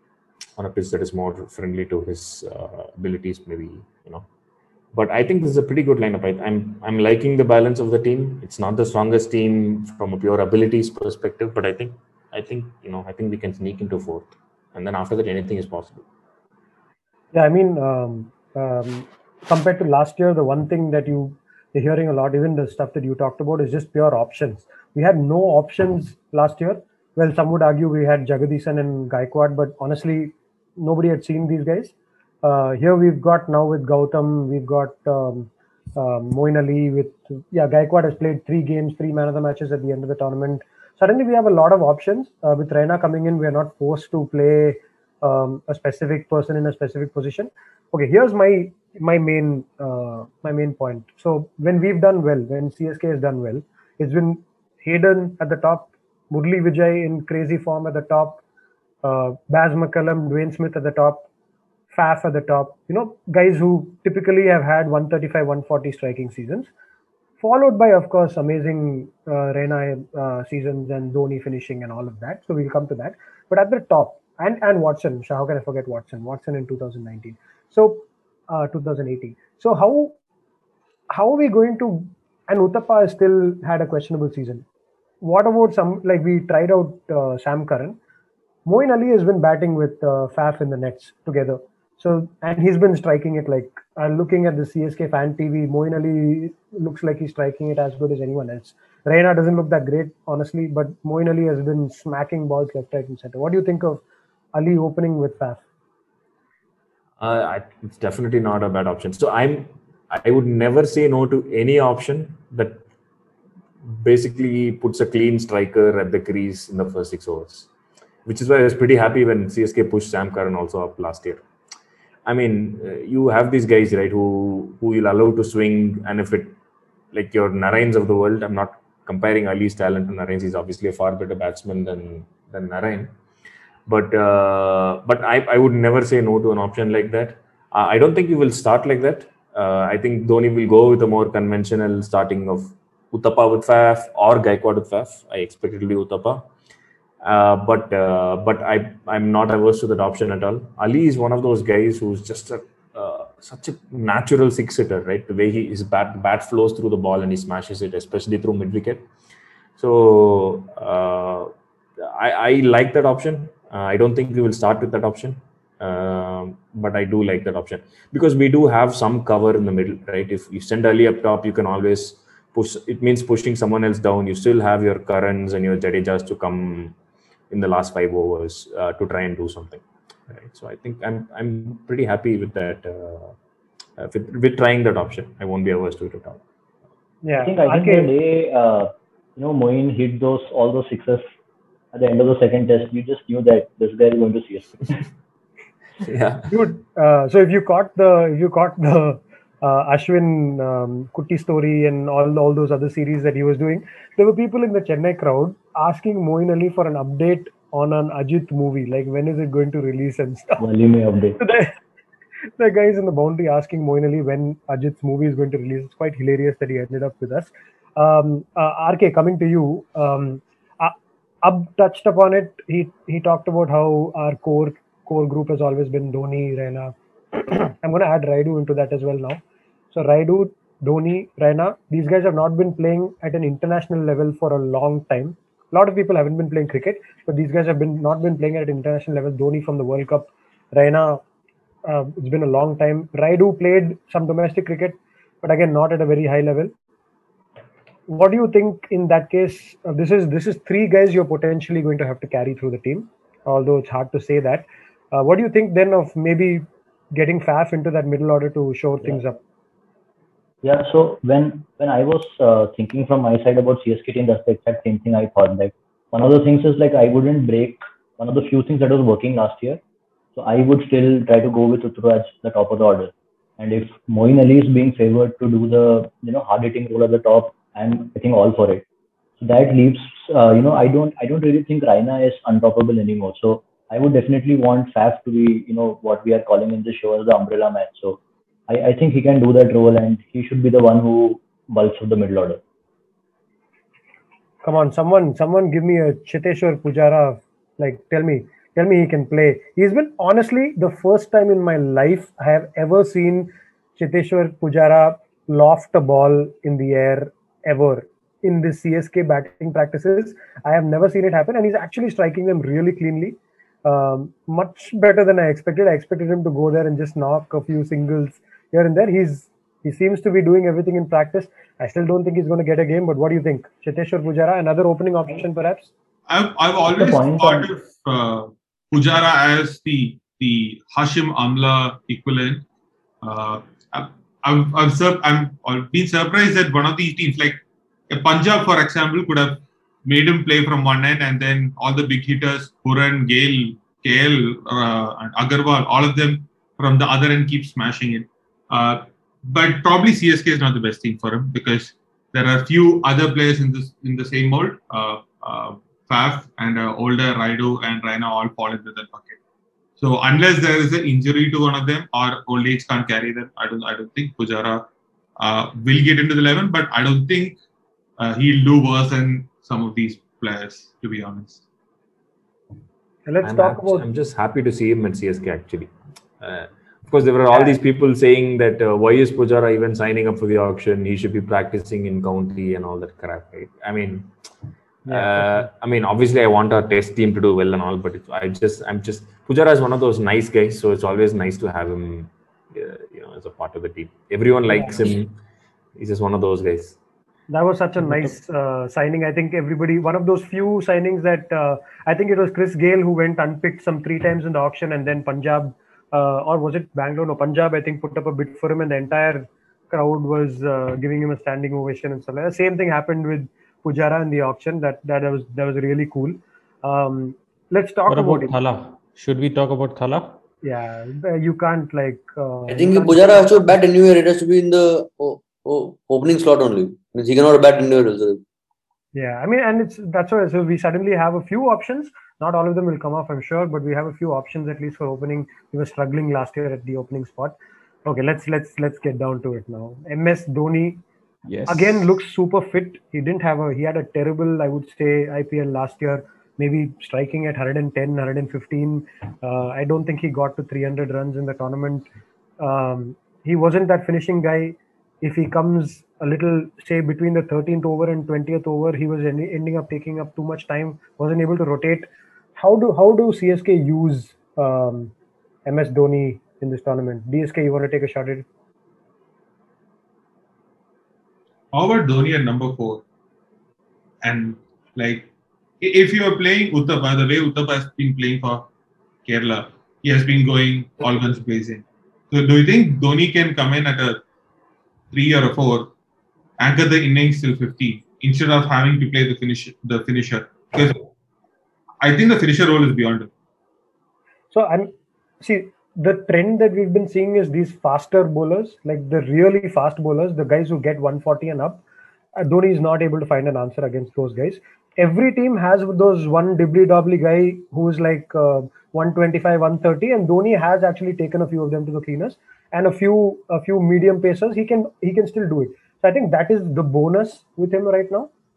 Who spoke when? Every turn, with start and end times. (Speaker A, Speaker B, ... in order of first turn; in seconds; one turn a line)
Speaker A: 0.6-4.3
Speaker A: 4.9-16.1
Speaker B: 17.3-58.4
Speaker B: 59.0-61.3
Speaker B: 61.9-66.7
Speaker B: 67.4-80.2
Speaker B: 81.1-84.6
Speaker B: 85.2-88.0
Speaker B: 88.7-104.0
Speaker B: 104.5-105.6
Speaker A: 107.2-112.8
Speaker A: 113.8-117.7
Speaker A: 118.3-121.4
Speaker A: 122.3-126.6
Speaker A: 127.1-133.2
Speaker A: 133.9-146.4
Speaker A: 147.2-159.1
Speaker A: 159.8-176.9
Speaker A: 177.5-183.4
Speaker A: 184.0-186.4
Speaker B: 187.2-188.1
Speaker C: 187.4-191.2
Speaker C: 191.9-195.0
Speaker A: 196.0-196.5
Speaker B: 196.5-210.6
Speaker C: 210.6-211.4
Speaker B: 211.4-211.7
Speaker B: 212.6-229.4
Speaker B: 229.9-241.2
Speaker B: 241.9-246.7
Speaker B: 248.1-259.4
Speaker C: 260.6-269.8
Speaker C: 270.4-278.8
Speaker C: 279.4-292.6
Speaker B: 294.6-325.9
Speaker D: 326.3-332.6
Speaker C: 326.9-327.7
Speaker D: 333.2-359.4
Speaker D: 360.0-364.9
Speaker D: 365.4-367.6
Speaker D: 368.2-371.6
Speaker B: 373.3-374.1
Speaker A: 373.4-384.3
Speaker B: 377.5-377.8
Speaker B: 385.1-385.7
Speaker A: 385.1-395.3
Speaker B: 394.7-395.0
Speaker A: 396.0-397.0
Speaker B: 397.5-418.6
Speaker E: 418.1-420.4
Speaker B: 420.6-423.8
Speaker F: 422.7-428.4
Speaker B: 429.1-441.0
Speaker E: 441.5-441.9
Speaker B: 441.7-452.1
Speaker B: 452.6-465.1
Speaker B: 465.7-468.5
Speaker D: 471.7-473.0
Speaker D: 474.2-475.3
Speaker D: 475.8-478.7
Speaker D: 479.3-484.2
Speaker D: 485.1-485.9
Speaker D: 486.6-491.0
Speaker D: 492.0-493.3
Speaker B: 494.5-501.8
Speaker B: 502.4-518.3